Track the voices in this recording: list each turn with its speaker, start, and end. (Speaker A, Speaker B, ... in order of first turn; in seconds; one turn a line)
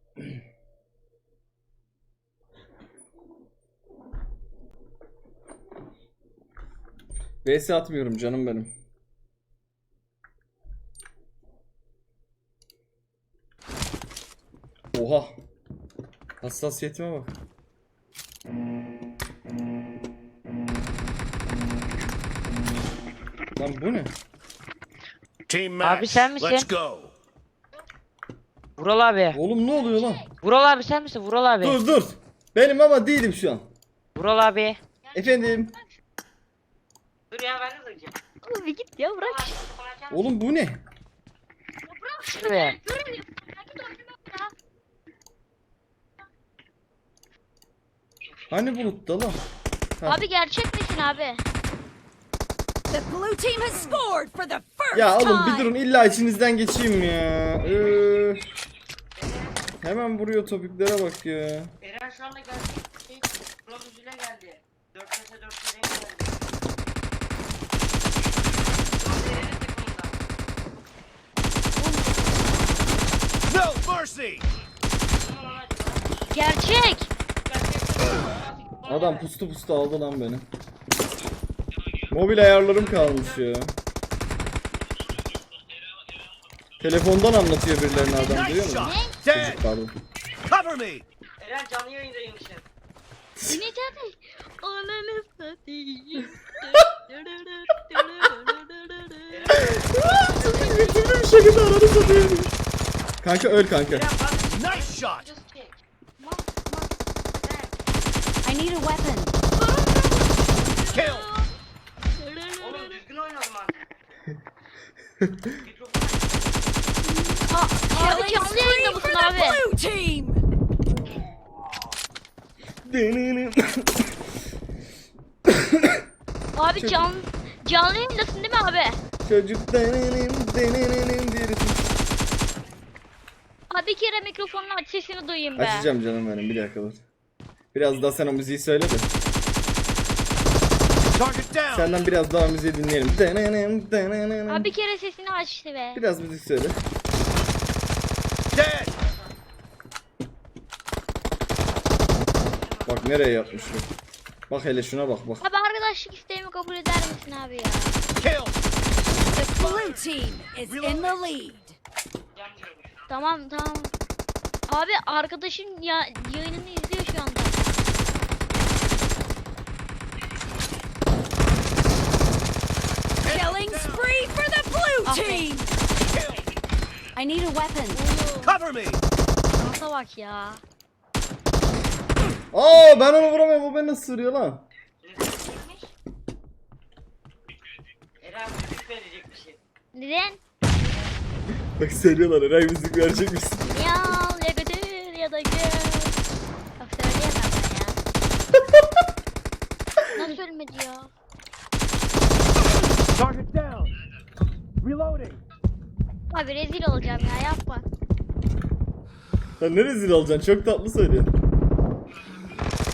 Speaker A: 7.4-8.7
Speaker A: 14.9-15.3
Speaker A: 16.4-17.3
Speaker A: 23.6-24.1
Speaker B: 25.5-27.1
Speaker C: 25.8-26.7
Speaker C: 28.8-29.4
Speaker A: 29.3-30.3
Speaker D: 29.7-30.3
Speaker C: 30.4-31.8
Speaker A: 31.6-33.6
Speaker C: 34.1-34.8
Speaker D: 35.1-35.7
Speaker A: 35.1-35.7
Speaker C: 37.3-38.1
Speaker D: 38.4-39.5
Speaker C: 39.2-40.2
Speaker A: 40.1-40.8
Speaker D: 41.9-44.5
Speaker C: 42.3-42.8
Speaker A: 48.5-49.4
Speaker D: 50.0-51.4
Speaker E: 52.9-55.7
Speaker A: 54.9-58.4
Speaker C: 59.2-59.5
Speaker A: 59.8-61.7
Speaker C: 61.8-66.4
Speaker C: 69.0-70.2
Speaker D: 71.8-72.3
Speaker B: 73.5-74.4
Speaker C: 75.2-76.0
Speaker D: 76.3-77.1
Speaker C: 77.5-79.2
Speaker A: 78.8-80.5
Speaker A: 82.1-83.7
Speaker C: 82.7-83.4
Speaker A: 86.8-89.9
Speaker B: 88.4-89.6
Speaker D: 88.7-89.2
Speaker B: 90.5-91.0
Speaker C: 91.4-92.6
Speaker D: 93.4-99.6
Speaker C: 99.3-101.1
Speaker A: 99.5-102.5
Speaker A: 103.2-104.1
Speaker C: 103.9-105.7
Speaker B: 104.5-105.2
Speaker D: 106.2-106.9
Speaker C: 107.3-107.7
Speaker E: 108.4-109.3
Speaker D: 109.6-111.5
Speaker B: 110.9-111.3
Speaker D: 112.2-113.0
Speaker C: 112.6-113.8
Speaker C: 115.6-116.5
Speaker E: 117.1-120.4
Speaker D: 117.5-119.6
Speaker A: 122.8-124.1
Speaker A: 125.5-126.0
Speaker D: 126.5-129.0
Speaker A: 126.8-127.0
Speaker A: 129.2-131.8
Speaker D: 133.7-135.9
Speaker A: 135.6-137.0
Speaker A: 137.7-139.1
Speaker B: 141.1-141.8
Speaker A: 141.7-144.7
Speaker D: 144.5-146.0
Speaker A: 145.9-146.8
Speaker B: 148.5-148.9
Speaker C: 152.5-153.4
Speaker A: 152.8-153.9
Speaker A: 154.5-155.4
Speaker D: 155.4-158.0
Speaker B: 158.2-158.6
Speaker E: 159.2-161.8
Speaker B: 159.6-159.9
Speaker B: 160.7-161.2
Speaker C: 162.3-162.9
Speaker D: 163.1-163.9
Speaker D: 164.7-167.7
Speaker E: 173.2-175.9
Speaker B: 173.2-174.0
Speaker D: 175.0-175.5
Speaker B: 176.0-176.4
Speaker E: 177.2-178.0
Speaker D: 177.9-178.6
Speaker B: 178.4-179.0
Speaker D: 179.6-180.6
Speaker A: 182.5-184.6
Speaker C: 185.0-185.9
Speaker C: 188.2-189.6
Speaker D: 189.9-190.4
Speaker A: 191.8-193.7
Speaker D: 193.6-196.2
Speaker D: 196.8-198.0
Speaker D: 200.1-201.1
Speaker B: 203.1-203.9
Speaker B: 204.8-205.4
Speaker D: 206.3-207.8
Speaker A: 209.6-211.3